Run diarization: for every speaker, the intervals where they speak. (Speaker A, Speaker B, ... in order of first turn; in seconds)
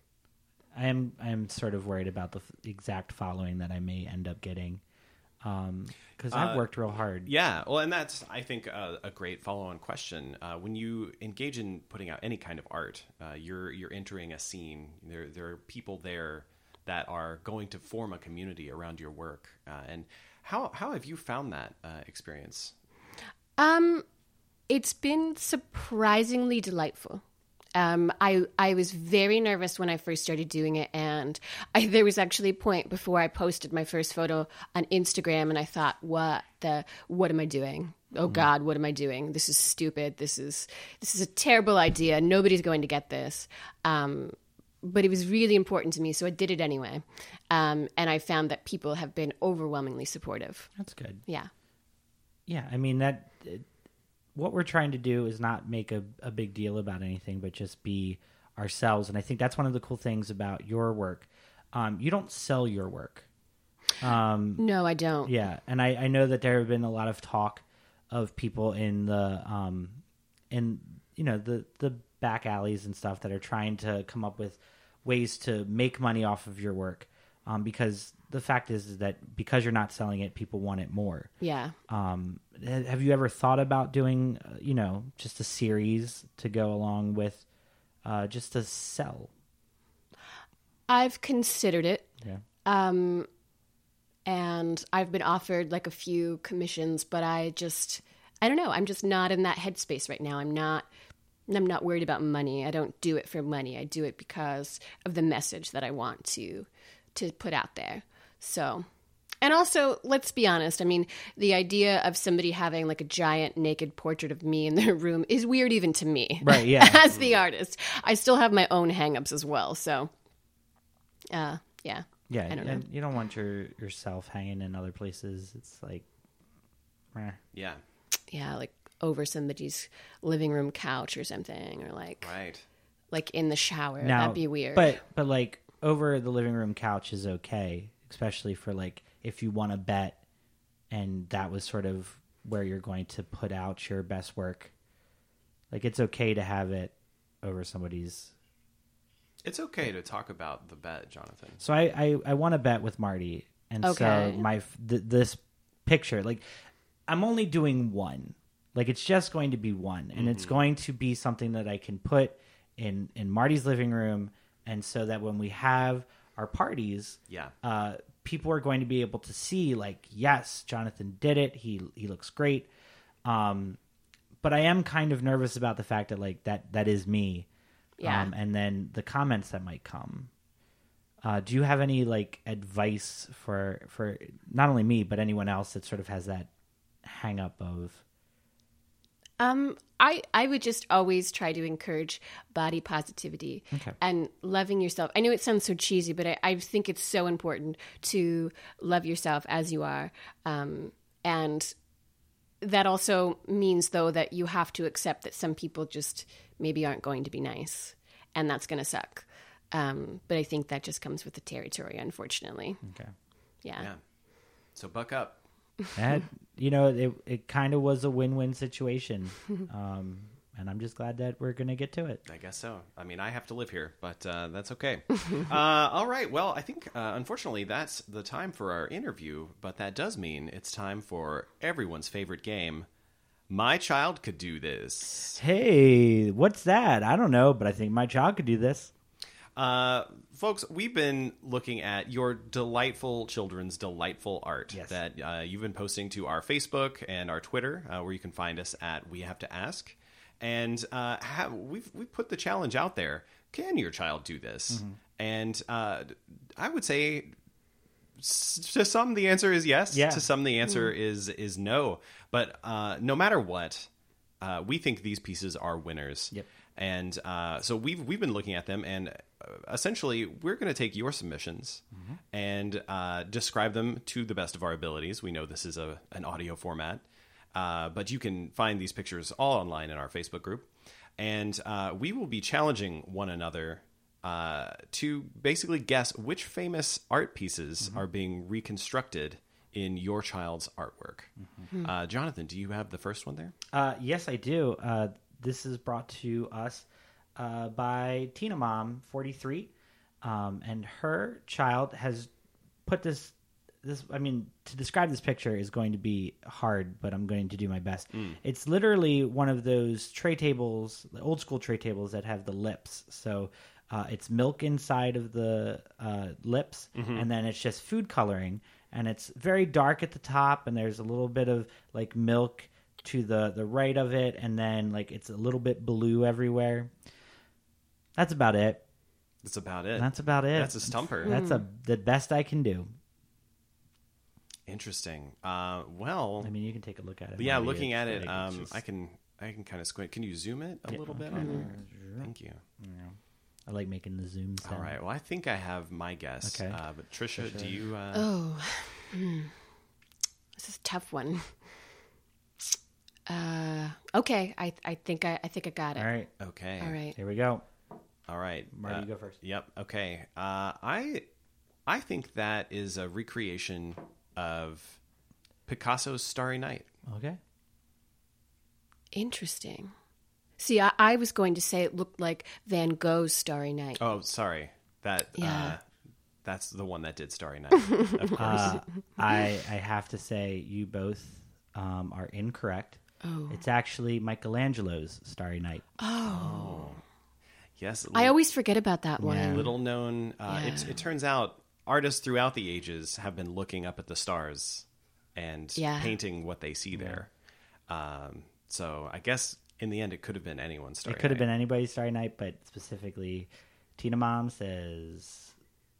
Speaker A: 0.7-4.8, 5.4-7.3, 50.8-51.2, 52.5-53.7, 54.4-63.3, 64.0-64.7, 65.2-81.3, 81.9-87.5, 88.0-89.3, 116.4-117.0, 122.3-126.1, 127.1-127.4, 134.0-140.2, 140.9-144.7, 145.7-148.3, 151.6-156.4, 157.1-172.7, 173.2-173.8, 174.4-177.5, 178.0-180.3, 181.2-186.5, 187.0-188.0, 212.8-213.1, 216.0-222.2, 235.4-238.9, 244.7-245.0, 254.7-255.0, 259.9-260.3, 271.9-272.2, 293.7-302.3, 302.9-326.9, 328.2-328.8, 330.0-332.9, 336.4-338.8, 340.9-344.9, 346.4-346.8, 347.4-347.9, 356.0-356.3, 357.1-357.7, 358.7-359.4, 367.1-367.4, 378.4-385.9, 389.2-389.7, 396.9-397.2, 401.1-405.5
Speaker B: 6.3-6.7, 7.2-22.7, 117.1-117.4, 127.5-127.8, 132.2-132.7, 149.4-151.6, 160.2-160.5, 167.3-167.5, 214.8-215.4, 222.3-232.9, 233.5-235.4, 239.6-257.3, 258.2-263.9, 264.4-291.3, 291.8-293.6, 316.9-317.3, 329.4-331.4, 334.7-336.5, 337.4-342.6, 344.6-348.3, 356.4-357.0, 358.3-361.3, 361.9-365.0, 365.7-366.9, 374.0-375.8, 376.4-378.8, 386.2-387.0, 387.8-388.4, 389.4-397.3, 397.9-401.4
Speaker C: 23.6-24.1, 24.7-27.2, 27.8-50.7, 64.6-65.3, 81.4-81.8, 90.9-92.1, 92.7-93.3, 94.3-100.9, 101.5-108.9, 109.4-120.1, 121.3-122.8, 128.3-132.3, 133.1-135.0, 153.8-154.4, 178.0-178.3, 189.4-201.7, 202.6-212.8, 213.6-213.9, 331.2-331.6, 341.3-341.7, 348.1-349.5, 350.6-351.5, 353.3-356.1, 356.8-357.2, 369.1-369.9, 370.6-374.0, 375.4-375.8, 377.9-378.8, 383.2-383.6, 386.0-387.0, 388.1-389.7, 390.5-391.0, 395.8-396.2